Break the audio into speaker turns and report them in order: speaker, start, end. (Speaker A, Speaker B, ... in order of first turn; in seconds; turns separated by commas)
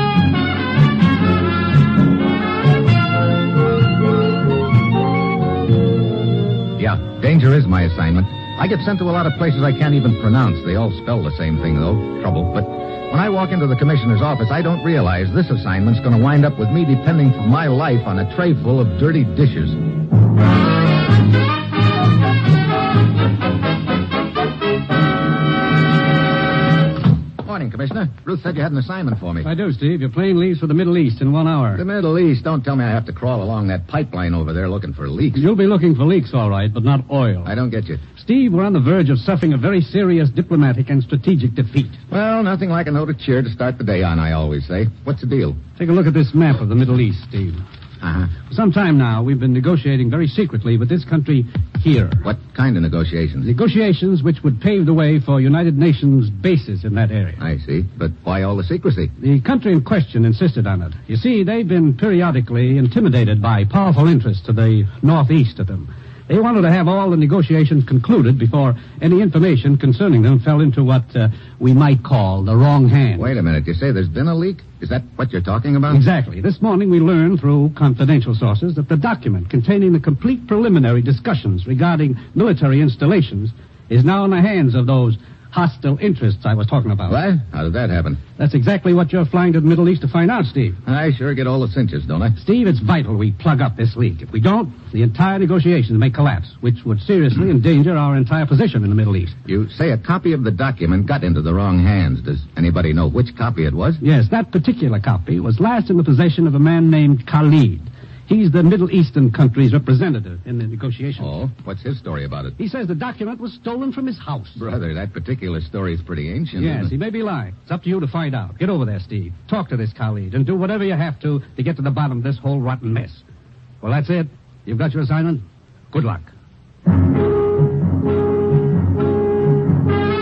Speaker A: 6.8-19.8, Speaker A: 27.4-29.5, Speaker B: 29.4-31.8, Speaker A: 31.7-35.5, Speaker B: 35.3-37.5, Speaker A: 37.4-38.0, Speaker B: 38.1-42.0, Speaker A: 42.1-45.6, Speaker B: 45.8-47.6, Speaker A: 48.0-48.3, Speaker B: 48.5-52.2, Speaker A: 52.2-53.5, Speaker B: 53.4-57.4, Speaker A: 57.4-59.1, Speaker B: 59.2-73.3, Speaker A: 73.2-76.0, Speaker B: 75.9-87.2, Speaker A: 87.1-88.2, Speaker B: 88.4-90.8, Speaker A: 90.8-92.3, Speaker B: 92.4-99.4, Speaker A: 99.5-104.0, Speaker B: 104.0-111.3, Speaker A: 111.2-112.5, Speaker B: 112.6-114.6, Speaker A: 114.6-116.9, Speaker B: 116.6-123.2, Speaker B: 123.8-126.3